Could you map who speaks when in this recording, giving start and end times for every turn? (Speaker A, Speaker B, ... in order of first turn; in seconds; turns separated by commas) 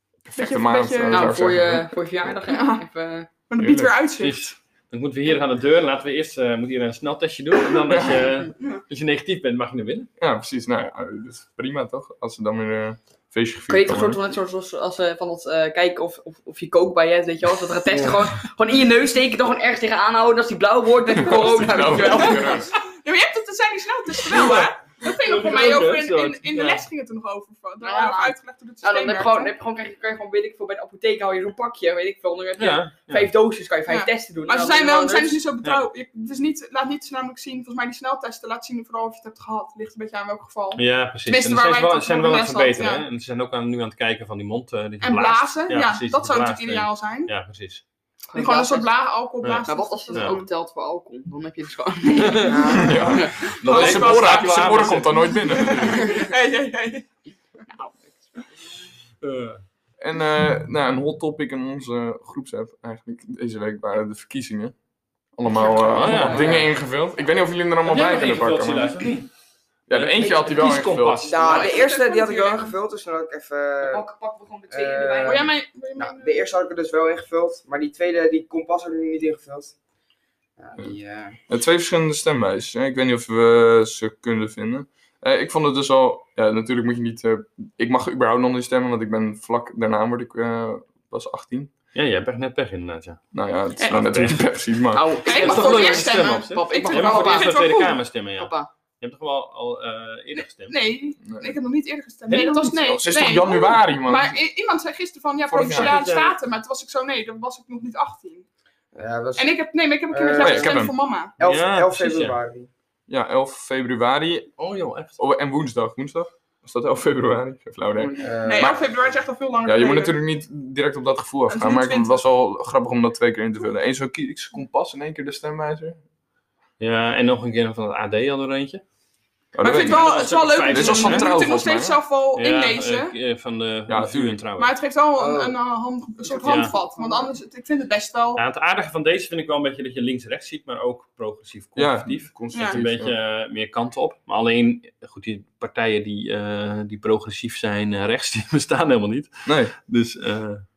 Speaker A: 0.3-1.9, Speaker B: 0.3-1.5, Speaker C: 1.1-3.3, Speaker B: 2.5-2.8, Speaker B: 3.5-4.5, Speaker A: 3.6-3.9, Speaker D: 4.2-10.1, Speaker A: 7.9-8.3, Speaker A: 10.2-14.2, Speaker C: 13.7-22.7, Speaker E: 17.9-18.3, Speaker A: 21.2-22.7, Speaker B: 21.8-29.5, Speaker D: 24.2-26.8, Speaker C: 27.8-35.4, Speaker D: 32.6-33.3, Speaker B: 33.9-43.0, Speaker D: 40.8-47.8, Speaker B: 45.0-47.3, Speaker C: 48.3-48.9, Speaker B: 48.3-50.5, Speaker D: 49.4-50.4, Speaker C: 49.6-53.3, Speaker D: 52.2-52.5, Speaker E: 52.4-53.0, Speaker A: 52.7-56.2, Speaker B: 53.3-57.0, Speaker D: 53.4-55.8, Speaker D: 59.2-59.6, Speaker A: 60.0-64.7, Speaker A: 65.3-69.1, Speaker D: 65.9-66.7, Speaker E: 66.1-66.6, Speaker C: 66.2-66.6, Speaker D: 67.8-69.3, Speaker A: 69.9-71.3, Speaker D: 69.9-71.8, Speaker E: 71.2-74.0, Speaker B: 71.4-72.7, Speaker C: 73.8-75.5, Speaker E: 74.7-79.7, Speaker B: 75.2-76.4, Speaker E: 80.6-81.4, Speaker A: 81.5-91.7, Speaker D: 91.9-93.2, Speaker A: 93.3-95.1, Speaker D: 93.8-94.6, Speaker C: 94.9-97.5, Speaker B: 95.2-98.0, Speaker D: 95.2-100.8, Speaker C: 98.4-98.7, Speaker B: 100.3-108.4, Speaker A: 101.2-101.6, Speaker D: 102.3-102.6, Speaker A: 102.6-104.4, Speaker A: 105.5-106.0, Speaker D: 105.6-106.3, Speaker E: 108.9-110.8, Speaker B: 109.3-111.3, Speaker A: 110.4-111.0, Speaker E: 111.4-112.7, Speaker D: 111.4-112.4, Speaker A: 113.1-114.6, Speaker D: 114.6-115.2, Speaker A: 115.2-118.8, Speaker E: 118.0-118.9, Speaker B: 118.4-120.2, Speaker A: 119.6-126.0, Speaker B: 121.5-122.2, Speaker D: 126.8-128.8, Speaker A: 129.6-130.1, Speaker B: 129.6-133.1, Speaker D: 129.7-131.3, Speaker A: 130.7-132.0, Speaker D: 132.3-134.7, Speaker A: 133.9-134.4, Speaker B: 134.6-138.4, Speaker E: 135.2-135.6, Speaker E: 136.4-137.1, Speaker D: 136.4-136.7, Speaker D: 138.3-150.6, Speaker A: 141.8-143.2, Speaker B: 142.5-142.8, Speaker A: 149.4-149.8